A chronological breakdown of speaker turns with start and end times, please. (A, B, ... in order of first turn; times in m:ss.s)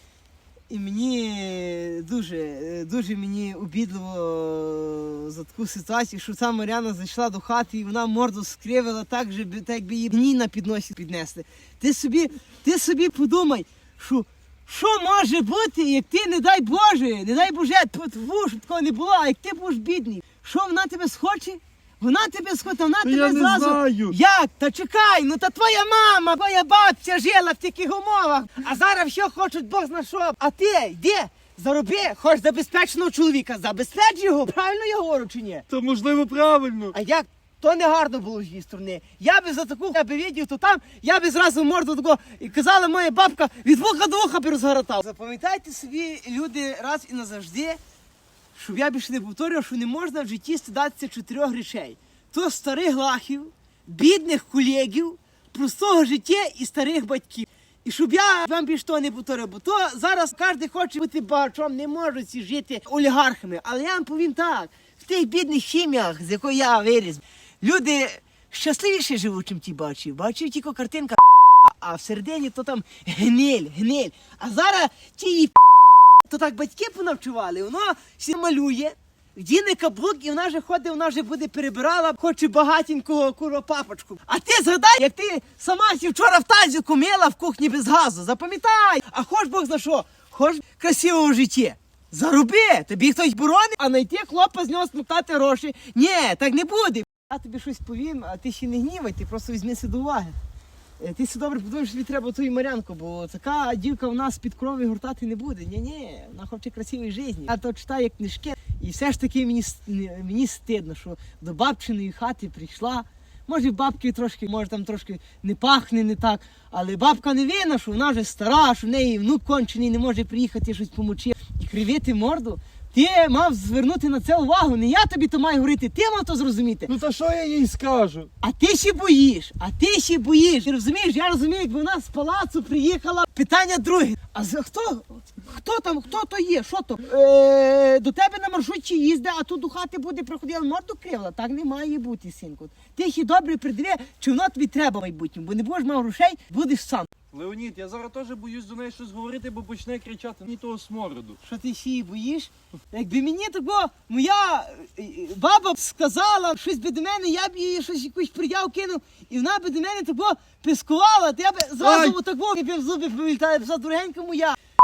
0:00.7-0:35.7 A
0:23.0-0:24.2 B
0:35.7-0:36.9 B
0:36.9-0:47.8 A
0:48.5-1:15.6 A
1:16.2-1:40.4 A
1:41.0-2:06.9 A
2:06.9-2:08.3 B
2:08.4-2:27.1 A
2:27.3-2:31.4 B
2:31.4-2:44.6 A
2:41.8-2:42.2 B